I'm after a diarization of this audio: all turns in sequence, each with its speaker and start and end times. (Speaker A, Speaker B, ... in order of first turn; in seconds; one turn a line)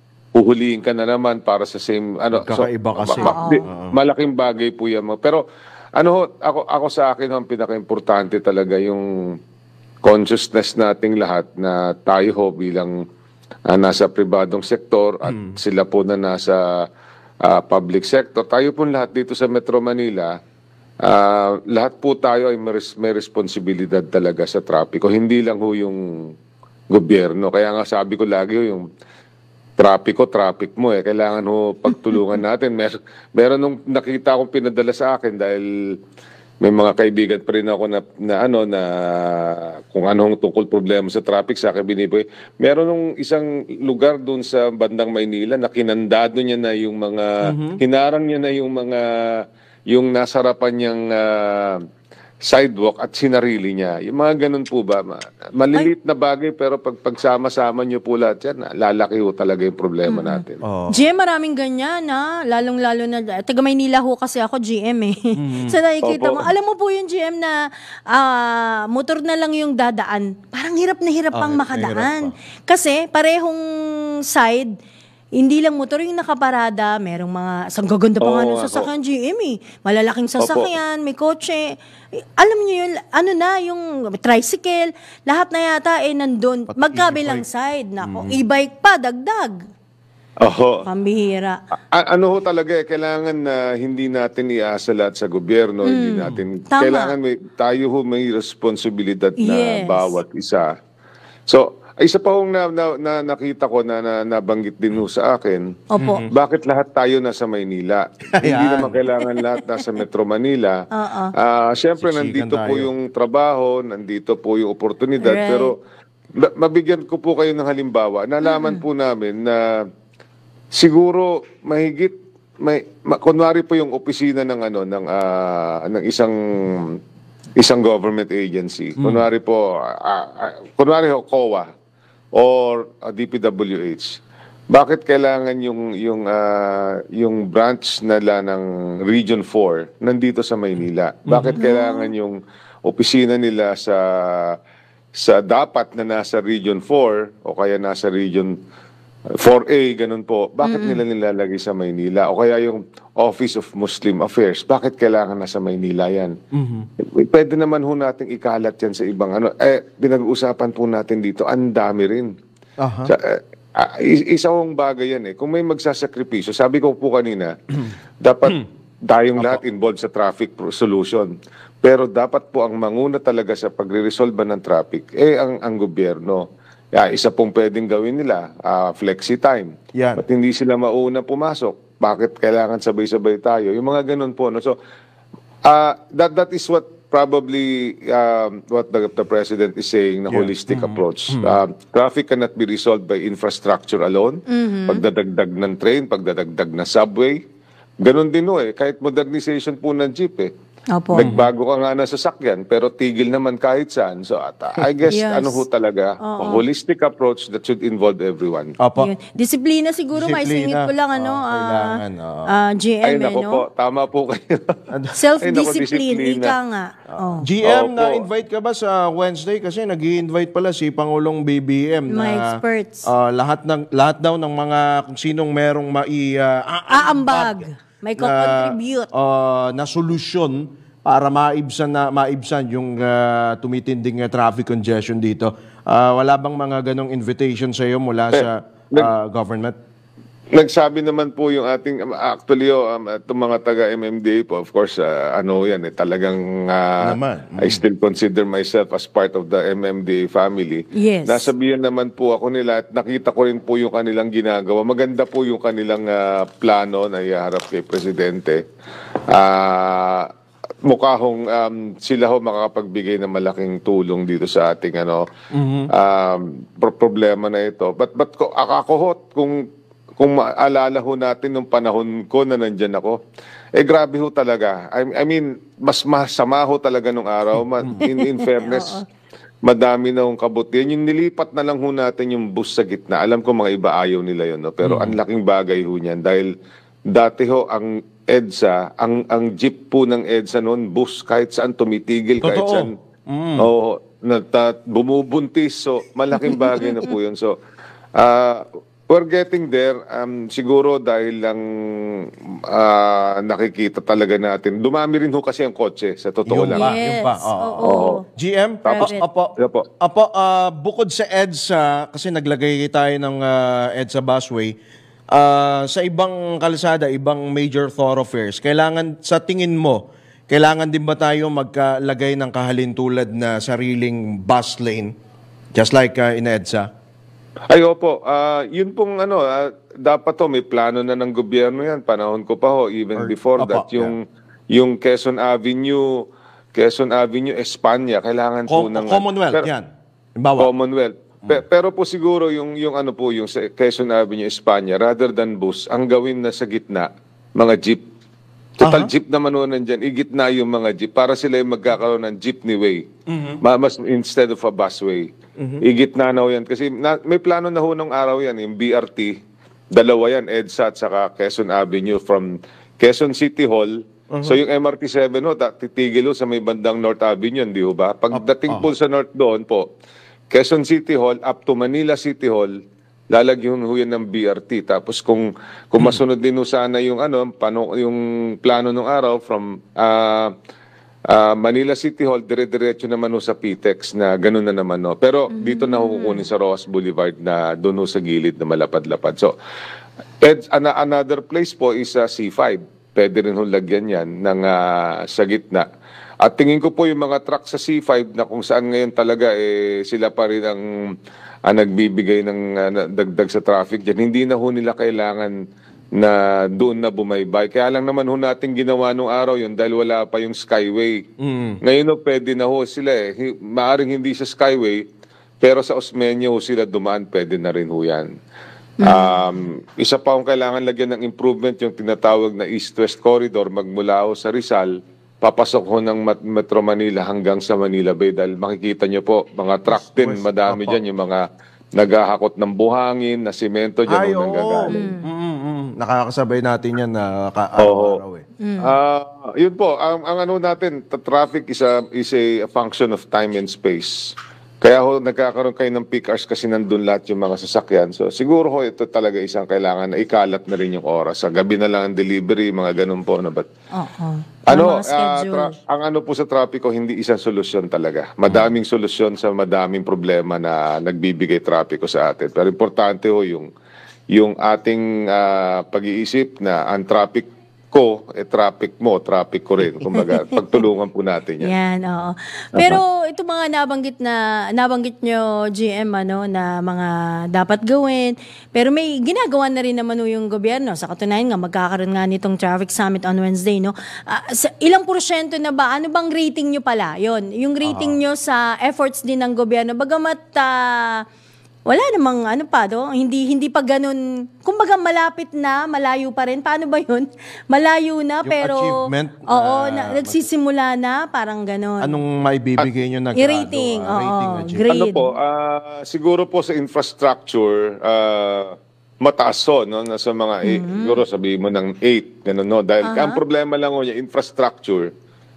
Speaker A: 0.3-5.4
Speaker B: 2.3-3.9
Speaker C: 3.2-3.6
Speaker A: 6.0-9.1
Speaker A: 10.0-12.9
Speaker A: 13.7-16.9
Speaker B: 15.3-15.6
Speaker A: 17.4-20.4
Speaker A: 21.0-26.3
Speaker A: 26.9-28.8
Speaker A: 29.8-35.7
Speaker A: 36.6-49.1
Speaker B: 47.4-47.8
Speaker A: 49.9-51.8
Speaker A: 52.4-60.6
Speaker C: 60.1-60.4
Speaker B: 60.6-61.0
Speaker C: 60.9-67.6
Speaker B: 65.4-65.8
Speaker A: 66.0-66.5
Speaker C: 68.1-73.6
Speaker B: 71.3-72.3
Speaker C: 74.3-74.7
Speaker C: 75.3-81.7
Speaker A: 78.2-78.9
Speaker A: 80.4-80.7
Speaker C: 82.4-89.6
Speaker B: 86.7-87.4
Speaker B: 88.0-88.4
Speaker A: 90.4-90.8
Speaker C: 90.8-91.6
Speaker A: 91.9-100.7
Speaker C: 95.8-97.1
Speaker C: 99.4-100.1
Speaker A: 101.5-110.8
Speaker C: 105.9-106.2
Speaker B: 106.0-106.3
Speaker B: 108.4-109.0
Speaker C: 110.9-111.3
Speaker A: 111.4-115.8
Speaker B: 112.0-112.9
Speaker C: 115.2-115.7
Speaker A: 116.4-119.6
Speaker C: 118.4-118.8
Speaker A: 120.7-126.9
Speaker A: 127.6-131.7
Speaker B: 129.0-129.2
Speaker A: 132.3-134.2
Speaker A: 134.7-144.6
Speaker B: 141.3-141.6
Speaker C: 141.6-142.1
Speaker A: 145.1-148.5
Speaker A: 149.4-156.3
Speaker C: 150.6-151.0
Speaker B: 156.5-156.9
Speaker A: 157.0-162.3
Speaker B: 162.8-163.1
Speaker A: 163.1-167.5
Speaker A: 168.2-184.8
Speaker B: 179.9-180.2
Speaker A: 185.6-197.4
Speaker B: 190.3-191.6
Speaker C: 194.5-195.0
Speaker A: 198.0-200.5
Speaker C: 200.9-201.3
Speaker A: 201.1-208.8
Speaker B: 201.2-201.5
Speaker C: 205.1-205.6
Speaker C: 206.2-206.6
Speaker B: 208.8-209.1
Speaker C: 209.0-212.0
Speaker B: 210.1-212.5
Speaker C: 212.5-213.6
Speaker A: 213.0-214.8
Speaker C: 215.1-217.5
Speaker A: 215.4-216.5
Speaker B: 217.4-239.8
Speaker A: 217.6-218.2
Speaker C: 222.1-223.1
Speaker C: 226.9-229.1
Speaker A: 238.3-239.1
Speaker A: 240.5-258.6
Speaker B: 247.0-247.8
Speaker C: 250.9-251.5
Speaker A: 259.3-260.3
Speaker A: 260.9-265.2
Speaker B: 265.5-265.9
Speaker A: 265.9-269.6
Speaker A: 270.2-273.2
Speaker A: 273.8-279.0
Speaker C: 278.1-279.0
Speaker A: 279.6-286.5
Speaker B: 284.8-285.2
Speaker A: 287.1-292.9
Speaker B: 292.4-293.7
Speaker A: 293.6-297.6
Speaker A: 298.2-301.6
Speaker A: 302.2-306.9
Speaker B: 306.4-314.7
Speaker C: 306.7-308.2
Speaker A: 307.8-308.2
Speaker C: 308.8-309.2
Speaker A: 308.9-309.8
Speaker B: 315.3-325.1
Speaker B: 325.7-326.9
Speaker A: 327.7-336.1
Speaker B: 333.1-334.1
Speaker A: 336.7-339.7
Speaker B: 338.7-339.9
Speaker B: 340.4-340.7
Speaker A: 340.6-348.0
Speaker A: 348.8-353.1
Speaker B: 348.8-349.1
Speaker B: 353.3-353.6
Speaker A: 353.6-355.3
Speaker A: 355.8-359.4
Speaker A: 359.9-369.9
Speaker B: 364.3-364.6
Speaker B: 368.3-368.9
Speaker A: 370.5-380.5
Speaker A: 381.3-389.5
Speaker C: 385.5-386.5
Speaker A: 390.4-395.9
Speaker A: 396.4-400.9
Speaker A: 401.7-405.5
Speaker A: 406.1-411.2
Speaker B: 411.4-411.8
Speaker A: 411.8-415.0
Speaker A: 415.6-418.3
Speaker C: 419.0-419.4
Speaker A: 419.0-431.4
Speaker B: 429.9-431.0
Speaker A: 432.0-435.0
Speaker B: 434.1-438.4
Speaker C: 434.9-435.2
Speaker A: 437.8-438.2
Speaker C: 438.6-438.9
Speaker A: 438.8-453.7
Speaker C: 453.9-455.8
Speaker A: 454.7-463.7
Speaker B: 458.5-458.7
Speaker A: 464.3-471.7
Speaker C: 470.1-470.4
Speaker C: 471.6-491.2
Speaker B: 487.8-488.2
Speaker C: 491.9-498.9
Speaker B: 498.4-500.4
Speaker C: 499.5-502.2
Speaker B: 502.0-504.8
Speaker C: 503.4-505.3
Speaker A: 504.9-515.1
Speaker C: 510.6-511.2
Speaker C: 513.0-513.4